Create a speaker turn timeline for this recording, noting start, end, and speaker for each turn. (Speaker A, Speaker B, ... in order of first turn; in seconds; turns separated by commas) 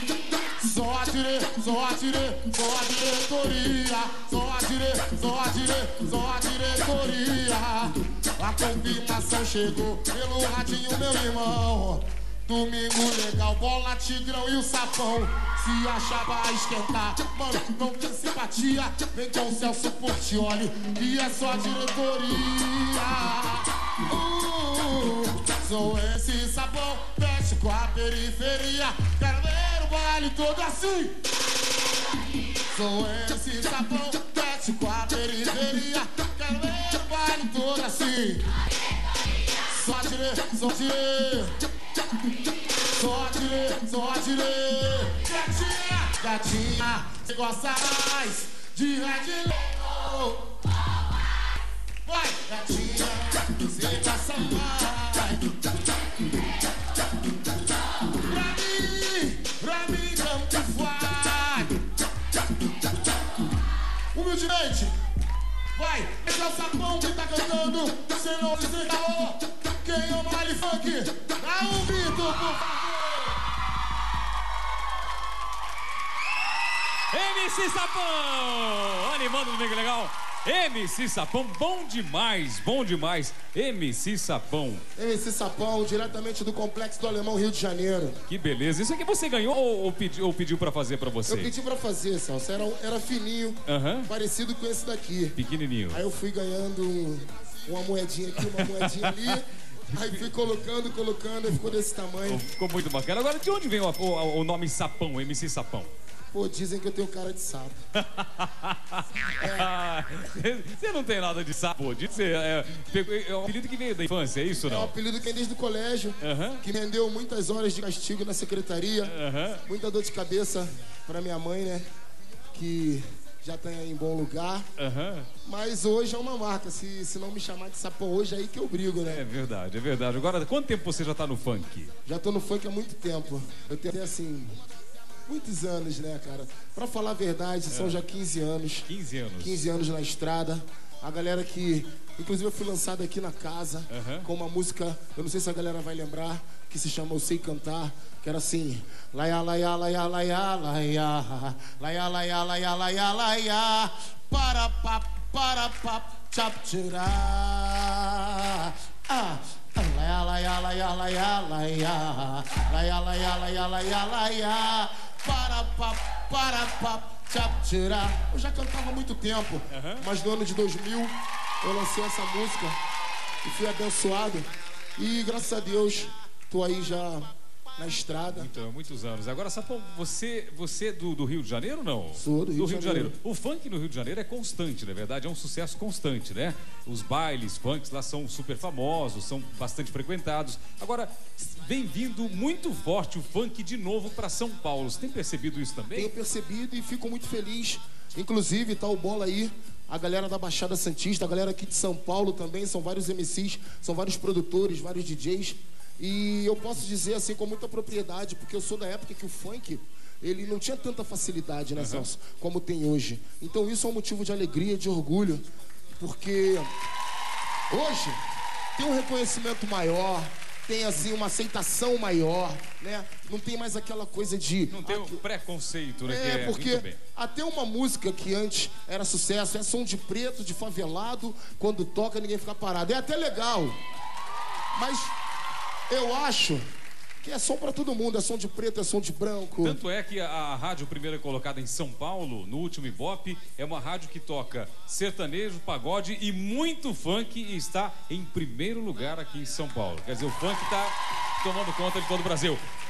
Speaker A: 0.6-31.2, Speaker A: 32.7-38.5, Speaker A: 39.6-41.6, Speaker A: 42.8-50.5, Speaker A: 52.0-55.6, Speaker A: 58.1-61.8, Speaker A: 64.1-64.9, Speaker A: 65.8-73.4, Speaker B: 77.1-84.8, Speaker A: 85.0-88.2, Speaker B: 88.3-91.5, Speaker A: 91.3-95.4, Speaker B: 93.7-94.1, Speaker B: 95.4-96.0, Speaker A: 95.9-102.4, Speaker B: 98.4-99.4, Speaker B: 100.0-100.2, Speaker B: 102.2-105.9, Speaker A: 106.3-107.8, Speaker B: 108.0-114.9, Speaker A: 109.4-109.7, Speaker A: 114.6-119.1, Speaker B: 116.2-116.6, Speaker B: 119.0-119.6, Speaker A: 119.7-121.9, Speaker A: 122.5-124.7, Speaker B: 124.8-125.3, Speaker A: 125.4-129.2, Speaker B: 129.1-131.9, Speaker A: 132.1-134.6, Speaker A: 135.3-138.9, Speaker B: 137.7-138.0, Speaker B: 138.9-139.6, Speaker A: 139.4-172.8, Speaker B: 143.9-144.3, Speaker B: 169.7-170.1, Speaker A: 173.4-178.5, Speaker B: 178.3-196.1, Speaker A: 182.2-183.1, Speaker A: 195.9-215.4, Speaker B: 211.8-212.1, Speaker A: 216.0-216.7, Speaker A: 217.7-218.2, Speaker A: 218.8-225.2, Speaker B: 224.7-227.0, Speaker A: 226.1-233.8, Speaker A: 234.8-235.1, Speaker A: 235.9-236.6, Speaker A: 237.2-239.8, Speaker B: 239.6-252.6